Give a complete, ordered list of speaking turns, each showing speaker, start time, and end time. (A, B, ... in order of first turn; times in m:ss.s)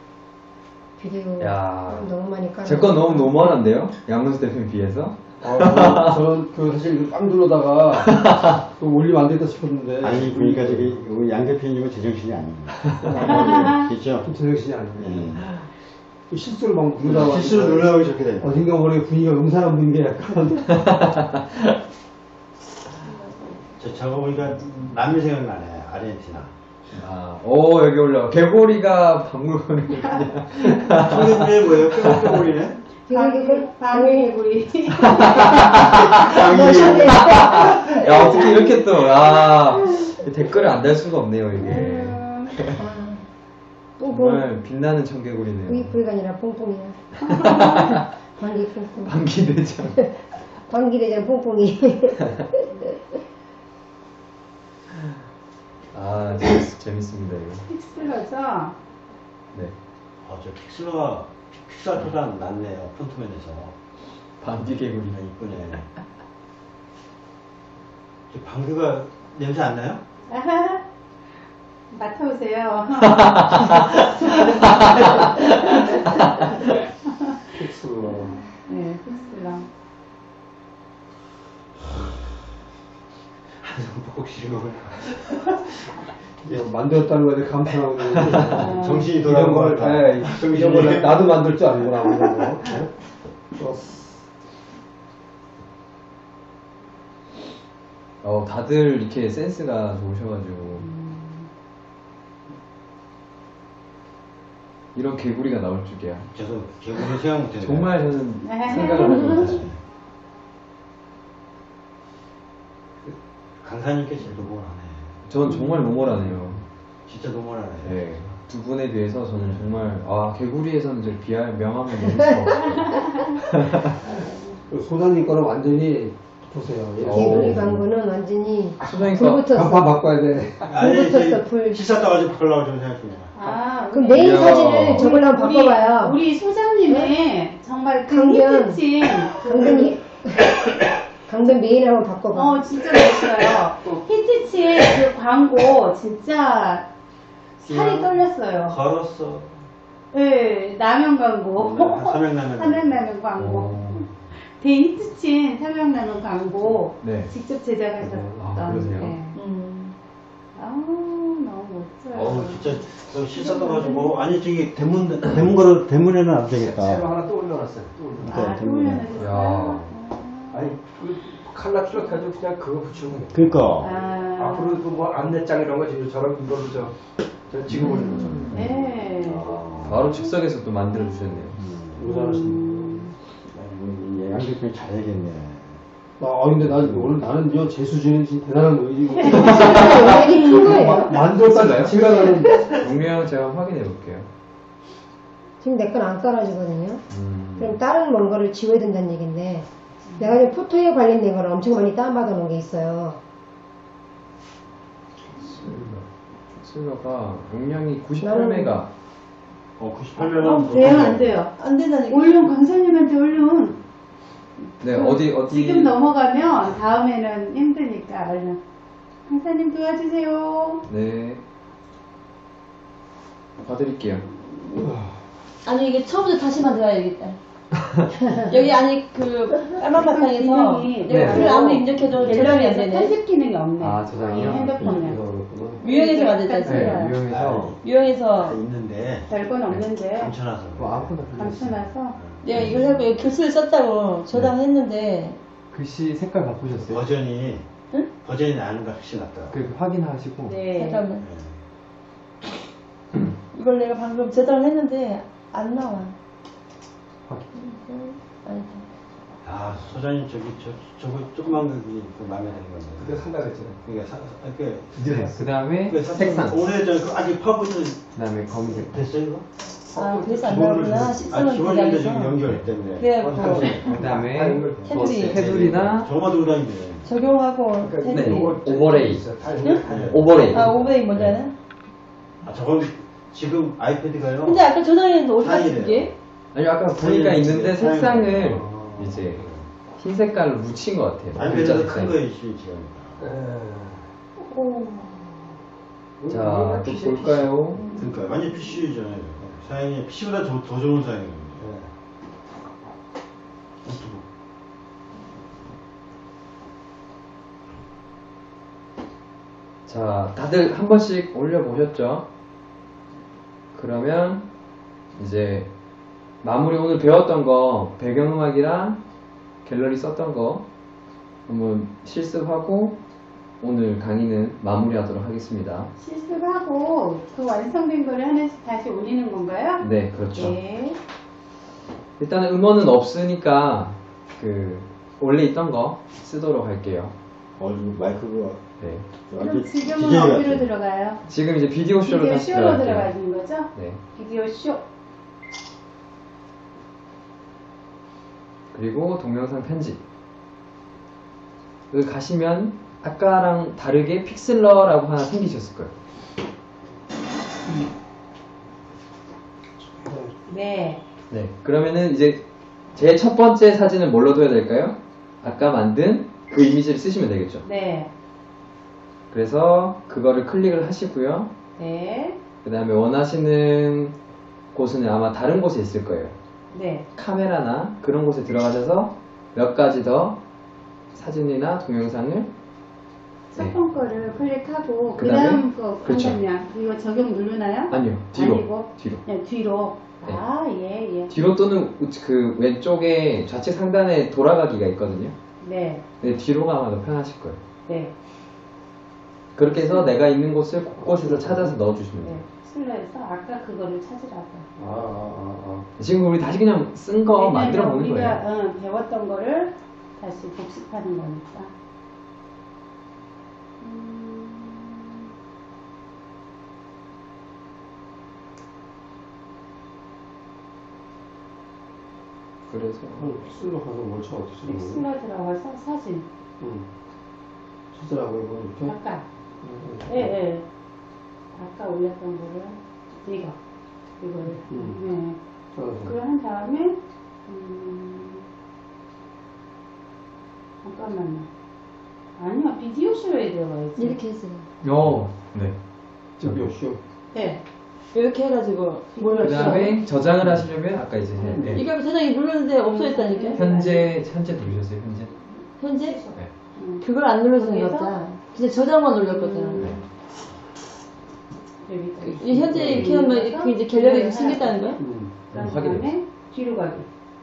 0:01.0-0:03.5 A
0:01.4-0:06.2 B
0:05.4-0:11.0 C
0:08.0-0:08.6 B
0:10.0-0:14.3 D
0:13.0-0:15.4 C
0:13.2-0:13.9 E
0:15.0-0:15.4 D
0:16.3-0:20.7 C
0:17.0-0:18.6 D
0:20.6-0:21.8 B
0:23.1-0:23.6 F
0:23.8-0:26.5 D
0:27.0-0:32.5 B
0:30.8-0:32.9 D
0:33.0-0:36.0 E
0:33.1-0:34.3 A
0:35.0-0:42.8 B
0:35.7-0:38.8 A
0:35.9-0:37.3 D
0:38.0-0:38.3 E
0:41.6-0:42.6 E
0:42.8-0:43.2 A
0:44.0-0:44.5 A
0:44.0-0:46.0 B
0:45.7-0:47.5 A
0:47.2-0:48.0 E
0:47.2-0:48.0 B
0:48.4-0:49.2 A
0:49.0-0:50.0 B
0:50.7-0:53.0 A
0:55.9-0:57.7 B
0:57.7-0:58.8 E
1:00.2-1:03.8 D
1:04.4-1:05.2 B
1:05.1-1:05.9 D
1:08.3-1:10.0 D
1:10.3-1:10.8 E
1:11.9-1:19.7 E
1:13.0-1:16.6 B
1:17.6-1:18.4 C
1:23.6-1:25.7 D
1:26.5-1:32.9 C
1:28.2-1:28.4 B
1:28.5-1:29.2 E
1:28.5-1:31.5 D
1:33.6-1:34.0 C
1:38.2-1:40.9 B
1:40.8-1:41.5 E
1:45.0-1:46.3 B
1:46.3-1:48.0 D
1:47.6-1:49.7 B
1:48.4-1:49.6 E
1:48.7-1:49.8 D
1:53.0-1:55.2 D
1:55.3-1:56.6 B
1:57.1-1:58.3 D
1:57.8-2:04.0 B
1:59.4-1:59.8 D
2:02.0-2:02.4 A
2:02.6-2:03.4 E
2:04.0-2:04.4 E
2:04.7-2:07.8 C
2:07.0-2:07.8 B
2:07.1-2:09.8 A
2:08.8-2:09.5 B
2:09.0-2:10.7 C
2:10.7-2:13.3 D
2:10.8-2:11.9 A
2:13.3-2:20.0 E
2:13.9-2:16.2 A
2:14.1-2:15.1 B
2:16.9-2:17.1 A
2:18.1-2:18.8 A
2:19.3-2:22.6 A
2:22.3-2:26.9 E
2:27.6-2:28.8 E
2:28.7-2:29.6 D
2:30.1-2:39.4 E
2:31.6-2:31.9 C
2:31.7-2:33.1 D
2:33.4-2:34.0 B
2:37.0-2:37.3 B
2:38.0-2:38.4 C
2:38.4-2:39.2 B
2:39.4-2:39.9 F
2:40.6-2:44.2 E
2:42.1-2:47.1 D
2:46.6-2:48.4 C
2:48.2-2:49.1 D
2:48.2-2:50.8 E
2:49.2-2:49.9 B
2:50.5-2:53.7 C
2:53.3-2:54.0 D
2:53.8-2:54.9 E
2:54.4-2:59.0 C
2:57.7-2:58.6 B
2:58.2-2:58.4 A
2:58.5-3:00.1 E
2:59.1-3:00.0 D
2:59.8-3:01.6 B
3:00.9-3:01.4 E
3:01.6-3:02.1 D
3:02.0-3:03.1 C
3:02.1-3:03.2 E
3:03.6-3:05.8 D
3:06.2-3:12.7 C
3:06.6-3:07.2 D
3:09.2-3:09.8 E
3:09.3-3:11.2 A
3:09.4-3:10.2 B
3:11.2-3:14.3 B
3:15.6-3:17.0 A
3:17.1-3:17.8 B
3:17.6-3:23.2 A
3:25.4-3:26.0 B
3:26.6-3:28.9 B
3:28.2-3:28.8 A
3:29.8-3:31.4 D
3:30.2-3:31.5 E
3:30.2-3:32.4 F
3:32.1-3:33.8 E
3:34.8-3:36.0 B
3:34.9-3:38.6 E
3:39.3-3:40.8 E
3:40.9-3:41.4 B
3:43.6-3:44.2 B
3:44.8-3:45.2 C
3:45.6-3:47.4 F
3:47.8-3:48.1 B
3:48.4-3:53.2 F
3:49.8-3:55.2 E
3:51.1-3:51.5 C
3:53.8-3:54.8 B
3:54.3-3:55.8 C
3:55.8-3:57.1 F
3:55.8-3:57.2 E
3:56.6-3:57.8 B
3:57.2-4:03.0 D
3:57.8-3:58.6 F
3:59.3-4:00.3 E
4:00.8-4:01.6 B
4:00.8-4:01.2 C
4:01.3-4:02.2 E
4:02.4-4:05.4 F
4:02.5-4:02.8 B
4:05.7-4:07.1 B
4:06.7-4:07.6 D
4:08.2-4:09.6 D
4:09.5-4:10.6 B
4:10.5-4:11.0 E
4:10.7-4:11.2 F
4:11.2-4:11.6 D
4:13.5-4:16.1 F
4:17.5-4:18.9 F
4:19.4-4:23.2 D
4:23.0-4:23.8 C
4:23.8-4:25.2 D
4:25.0-4:25.5 C
4:25.0-4:26.7 B
4:25.8-4:28.0 D
4:28.2-4:28.9 B
4:28.7-4:29.4 D
4:29.9-4:31.4 C
4:29.9-4:32.4 F
4:30.8-4:34.0 D
4:33.0-4:33.9 F
4:33.2-4:35.6 C
4:33.9-4:36.1 B
4:34.8-4:37.1 D
4:34.8-4:35.4 F
4:37.0-4:38.6 F
4:37.8-4:40.9 C
4:38.1-4:39.3 B
4:39.6-4:41.5 F
4:39.8-4:40.3 D
4:40.0-4:41.4 B
4:42.4-4:44.6 D
4:44.4-4:46.1 F
4:45.4-4:46.2 D
4:46.5-4:49.4 B
4:47.0-4:49.7 D
4:48.6-4:49.1 C
4:50.0-4:52.2 B
4:51.4-4:53.2 D
4:53.2-4:55.5 C
4:56.2-4:58.4 C
4:56.3-4:57.8 B
4:57.9-5:01.7 D
5:01.6-5:01.9 C
5:03.8-5:04.2 C
5:09.9-5:12.3 B
5:13.7-5:14.5 B
5:15.2-5:15.7 B
5:16.4-5:19.0 B
5:19.6-5:20.6 B
5:21.5-5:23.0 B
5:23.6-5:25.9 B
5:26.0-5:31.0 E
5:29.8-5:30.6 B
5:32.2-5:37.1 B
5:37.6-5:38.7 D
5:38.8-5:39.1 B
5:39.3-5:40.7 D
5:39.4-5:41.2 E
5:41.3-5:43.1 B
5:42.0-5:44.8 E
5:43.7-5:44.0 B
5:48.7-5:50.0 B
5:51.9-5:55.9 B
6:00.0-6:00.4 C
6:00.5-6:01.0 E
6:01.3-6:07.6 B
6:07.6-6:08.1 E
6:09.3-6:11.5 B
6:11.8-6:12.4 E
6:12.6-6:14.2 B
6:14.7-6:16.3 B
6:16.7-6:17.1 E
6:17.2-6:20.4 B
6:21.1-6:22.5 B
6:23.5-6:31.3 E
6:25.2-6:26.4 B
6:27.9-6:29.2 B
6:31.3-6:35.4 B
6:35.6-6:36.0 E
6:36.2-6:37.6 B
6:37.9-6:38.1 E
6:39.6-6:42.4 B
6:39.7-6:40.1 E
6:41.0-6:41.8 C
6:42.2-6:44.7 E
6:44.8-6:45.9 C
6:46.0-6:48.4 B
6:47.3-6:51.7 E
6:53.8-6:55.2 E
7:02.7-7:03.4 B
7:03.2-7:05.0 C
7:04.6-7:06.3 E
7:06.6-7:06.9 C
7:07.9-7:09.0 C
7:08.8-7:09.3 E
7:09.6-7:10.4 C
7:10.1-7:10.6 E
7:11.5-7:13.6 E
7:14.2-7:15.4 E
7:14.7-7:15.0 C
7:15.8-7:16.2 C
7:16.0-7:18.4 E
7:20.8-7:21.5 E
7:22.4-7:24.2 E
7:24.0-7:24.7 F
7:24.8-7:25.8 B
7:26.4-7:27.0 C
7:26.4-7:26.7 B
7:27.3-7:27.6 E
7:28.1-7:30.0 F
7:29.2-7:30.0 E
7:29.4-7:31.9 B
7:31.4-7:31.8 C
7:31.5-7:33.7 F
7:32.9-7:34.2 E
7:33.6-7:35.3 B
7:35.8-7:36.2 F
7:36.0-7:37.0 E
7:37.0-7:40.0 F
7:37.6-7:38.2 E
7:39.2-7:40.0 E
7:41.8-7:45.0 E
7:42.2-7:45.0 F
7:42.4-7:43.2 C
7:45.0-7:45.5 C
7:45.5-7:46.1 B
7:45.5-7:47.1 E